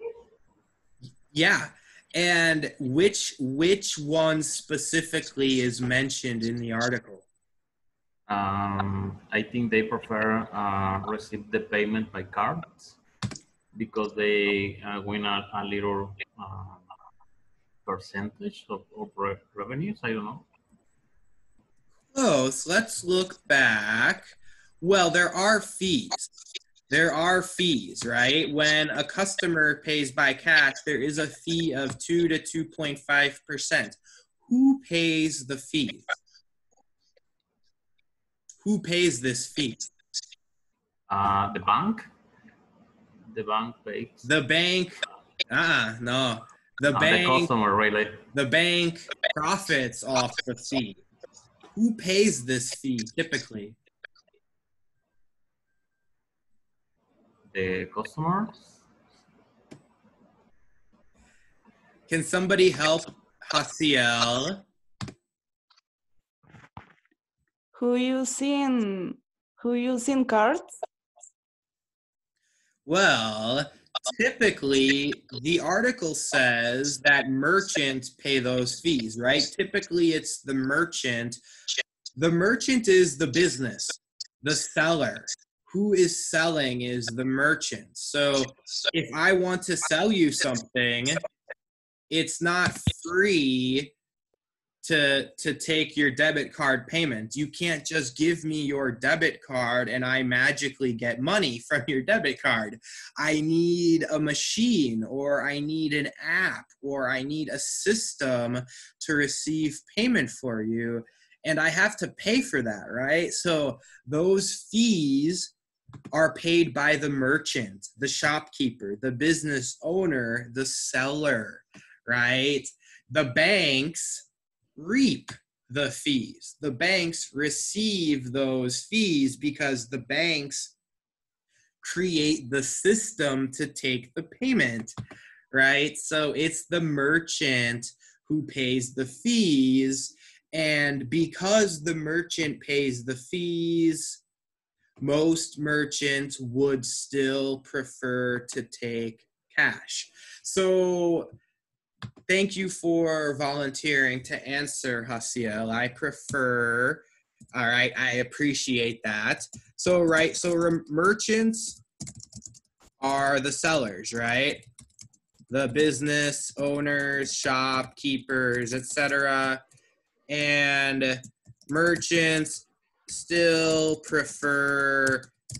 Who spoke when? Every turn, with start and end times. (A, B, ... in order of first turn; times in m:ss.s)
0:01.3-0:07.3 A
0:08.3-0:13.0 B
0:13.7-0:16.9 B
0:17.8-0:20.4 B
0:22.1-0:26.3 A
0:26.9-0:36.1 A
0:38.6-0:39.8 A
0:41.1-0:42.1 B
0:43.3-0:44.3 B
0:44.2-0:47.5 A
0:46.9-0:48.3 B
0:48.3-0:51.0 A
0:51.7-0:53.8 A
0:57.5-0:58.8 B
1:02.1-1:04.6 A
1:07.7-1:10.8 C
1:12.8-1:21.4 A
1:22.2-1:31.2 A
1:32.1-1:33.9 A
1:34.8-1:55.5 A
1:56.1-2:10.7 A
2:11.8-2:14.9 A
2:15.5-2:24.2 A
2:25.0-2:31.3 A
2:32.3-2:37.0 A
2:37.5-2:41.8 A
2:43.0-2:44.6 A
2:45.5-2:49.6 A
2:50.3-2:55.3 A